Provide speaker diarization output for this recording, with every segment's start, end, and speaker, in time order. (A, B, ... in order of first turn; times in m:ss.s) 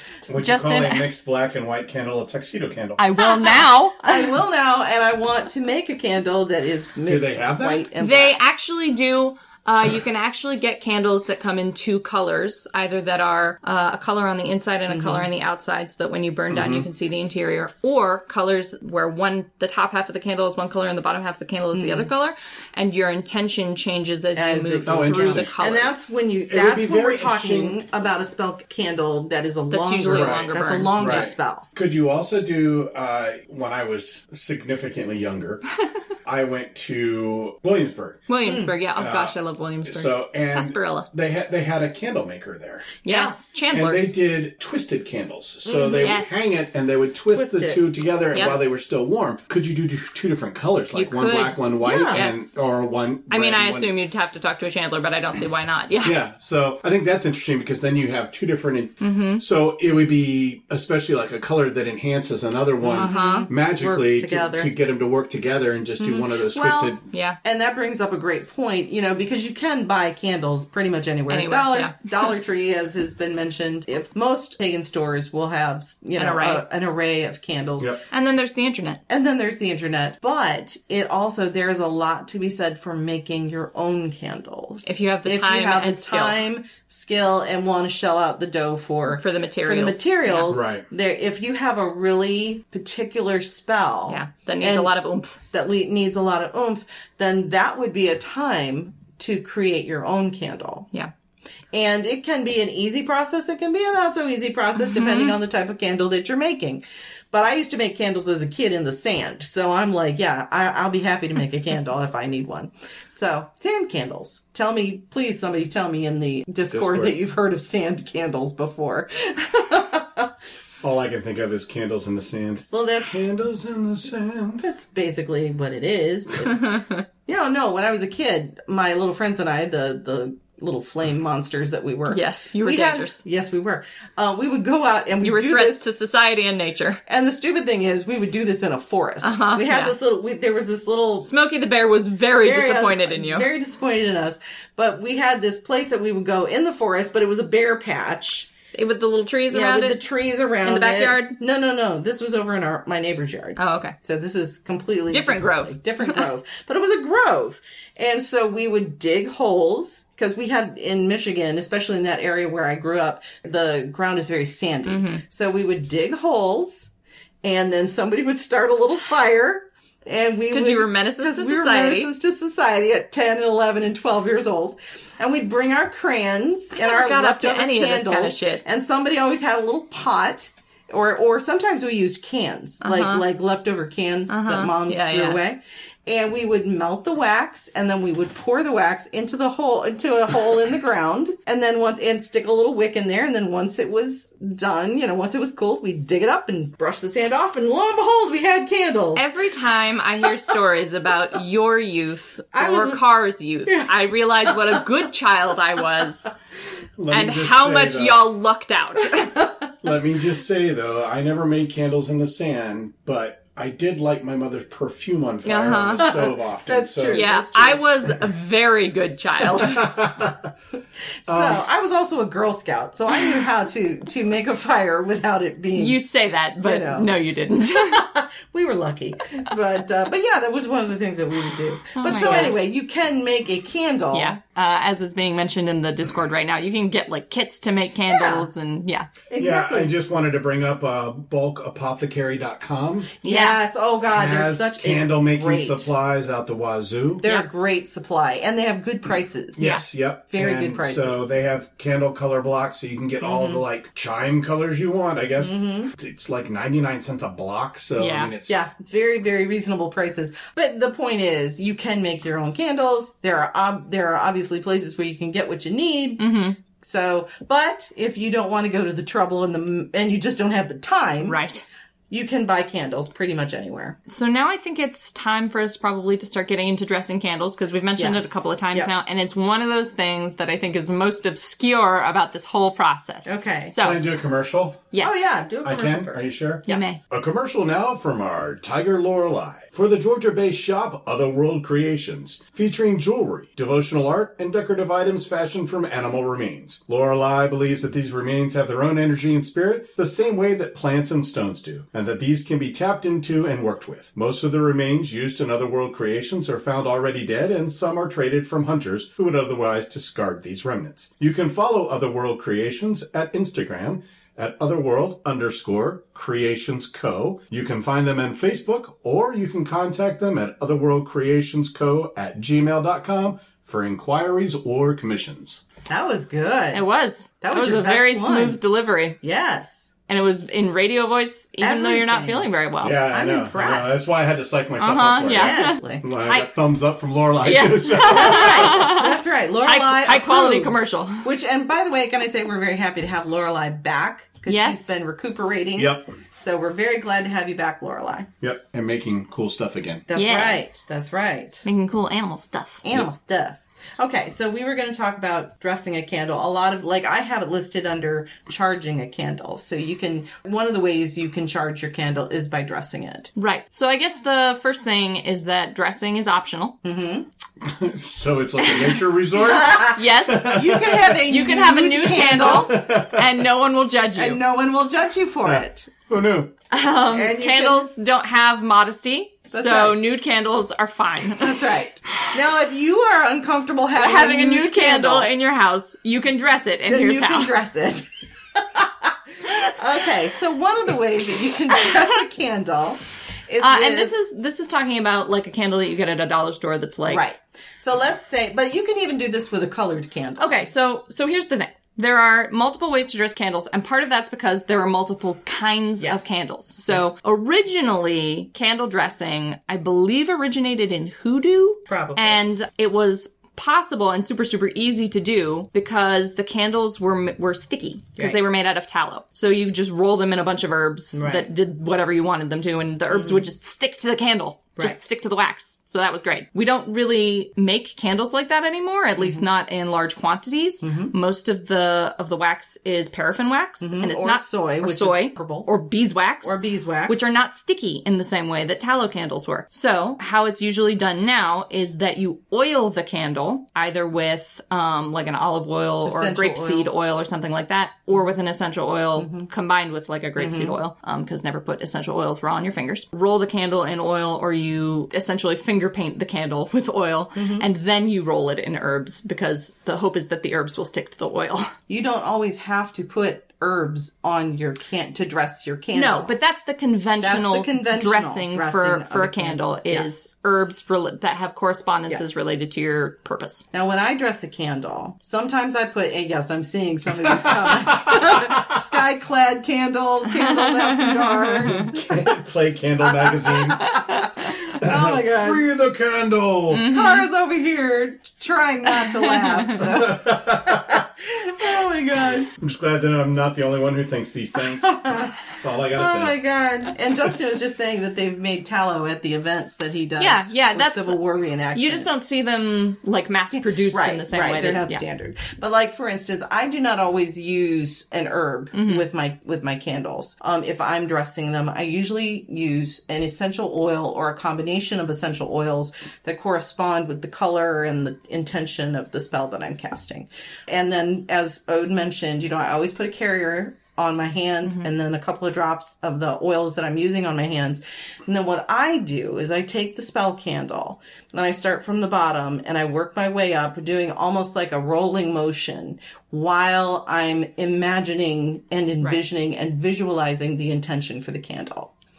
0:00.3-0:03.0 A
0:00.4-0:01.1 B
0:03.0-0:04.4 B
0:03.2-0:08.4 C
0:07.1-0:07.8 A
0:08.0-0:26.0 B
0:14.9-0:15.3 C
0:16.5-0:16.9 A
0:21.7-0:22.1 C
0:24.4-0:31.7 C
0:24.9-0:25.5 A
0:26.5-0:27.8 A
0:29.7-0:31.3 B
0:30.0-0:35.6 A
0:36.2-0:38.3 A
0:38.3-0:41.1 B
0:38.4-0:38.7 C
0:39.0-0:42.9 A
0:43.0-0:44.2 B
0:43.1-0:43.4 C
0:43.7-0:53.9 A
0:45.7-0:46.3 C
0:46.0-0:46.6 B
0:47.3-0:47.8 C
0:48.3-0:48.6 B
0:50.9-0:52.6 B
0:51.8-0:52.2 C
0:53.3-0:56.2 B
0:56.0-1:07.0 A
0:59.0-0:59.4 B
1:02.8-1:03.5 B
1:02.8-1:04.7 C
1:06.0-1:18.1 C
1:07.1-1:07.4 B
1:11.3-1:12.3 B
1:16.2-1:16.6 B
1:18.1-1:19.0 B
1:19.1-1:34.9 C
1:24.8-1:26.4 B
1:29.1-1:30.6 B
1:30.4-1:30.8 A
1:34.1-1:35.4 B
1:35.5-1:40.9 C
1:41.7-2:00.3 C
1:44.8-1:45.4 B
1:56.7-1:57.1 A
2:00.8-2:04.7 A
2:02.7-2:03.3 C
2:04.6-2:15.9 C
2:06.4-2:07.0 B
2:12.1-2:13.2 B
2:15.2-2:17.0 B
2:17.1-2:21.3 C
2:19.2-2:20.0 B
2:21.2-2:23.5 B
2:22.4-2:28.5 C
2:28.7-2:30.0 B
2:29.5-2:46.9 C
2:30.6-2:31.4 B
2:33.6-2:34.0 B
2:35.1-2:36.2 B
2:44.9-2:45.2 B
2:47.4-3:19.3 C
2:50.5-2:52.1 B
2:56.8-2:58.6 B
3:02.8-3:03.2 B
3:04.3-3:05.4 B
3:19.2-3:26.3 B
3:22.5-3:23.0 C
3:24.4-3:24.8 C
3:27.0-3:28.2 A
3:27.1-3:29.5 B
3:29.1-3:29.5 C
3:29.8-3:37.2 A
3:35.4-3:36.2 B
3:36.0-3:37.8 C
3:37.1-3:39.9 B
3:39.5-3:40.5 A
3:41.3-3:46.0 C
3:41.3-3:41.6 A
3:43.1-3:43.4 B
3:45.8-3:48.1 B
3:46.6-3:47.2 C
3:47.8-3:54.3 C
3:52.0-3:52.6 B
3:52.1-3:52.6 A
3:54.1-3:59.1 B
3:58.1-3:58.5 C
3:59.3-3:59.9 C
3:59.4-4:03.1 A
4:03.2-4:05.9 C
4:03.2-4:03.6 B
4:04.1-4:07.2 A
4:07.2-4:09.7 C
4:09.6-4:09.9 B
4:09.6-4:18.6 A
4:10.3-4:11.4 C
4:13.2-4:13.6 C
4:15.4-4:15.9 C
4:18.0-4:18.3 B
4:18.5-4:31.4 C
4:26.2-4:26.6 B
4:31.3-4:31.6 B
4:32.1-4:34.0 C
4:34.1-4:44.0 B
4:38.0-4:38.9 C
4:43.3-4:43.8 C
4:43.8-4:44.9 A
4:45.0-4:46.8 C
4:45.6-5:25.6 A
4:46.7-4:47.0 B
5:25.9-5:26.8 C
5:26.7-5:29.2 B
5:27.4-5:28.6 C
5:29.2-5:29.9 C
5:30.1-5:33.0 B
5:31.6-5:34.1 C
5:32.8-5:38.8 A
5:34.8-5:36.5 B
5:35.3-5:36.0 C
5:37.4-5:41.3 B
5:38.0-5:48.3 C
5:44.5-5:45.0 B
5:45.8-5:46.1 A
5:48.4-5:50.1 A
5:50.1-5:51.6 C
5:50.1-5:50.6 B
5:51.6-5:52.8 B
5:52.8-6:03.3 C
6:03.4-6:06.8 B
6:06.8-6:07.3 C
6:07.6-6:11.2 A
6:08.6-6:09.0 B
6:09.4-6:12.8 C
6:09.7-6:14.4 B
6:12.4-6:13.3 A
6:14.2-6:15.9 C
6:15.4-6:16.5 A
6:16.7-6:21.6 B
6:17.1-6:17.9 C
6:19.5-6:20.0 C
6:21.3-6:25.3 C
6:24.0-6:27.6 B
6:26.9-6:34.1 C
6:33.6-6:37.3 B
6:37.1-6:40.7 C
6:40.4-7:41.7 B
6:46.0-6:46.4 C
6:51.9-6:52.4 C
7:01.1-7:01.5 C
7:03.1-7:03.5 C
7:09.2-7:09.4 C
7:10.8-7:11.1 C
7:13.8-7:15.7 C
7:16.4-7:17.3 C
7:26.0-7:26.9 C
7:29.2-7:29.5 C
7:30.4-7:30.8 C
7:37.4-7:37.6 C
7:41.9-7:46.3 C
7:45.9-7:53.7 B
7:47.2-7:50.1 C
7:52.1-7:52.4 C
7:53.7-8:02.3 C
7:57.3-7:58.8 A
8:00.4-8:01.9 B
8:01.8-8:04.2 A
8:03.0-8:05.6 C
8:03.8-8:04.3 B
8:04.8-8:06.9 A
8:06.7-8:07.3 B
8:06.8-8:12.5 C
8:09.0-8:09.7 B
8:09.7-8:11.0 A
8:12.5-8:16.4 A
8:14.6-8:22.1 C
8:20.2-8:21.2 B
8:21.7-8:25.0 B
8:23.9-9:01.9 C
8:28.7-8:29.1 B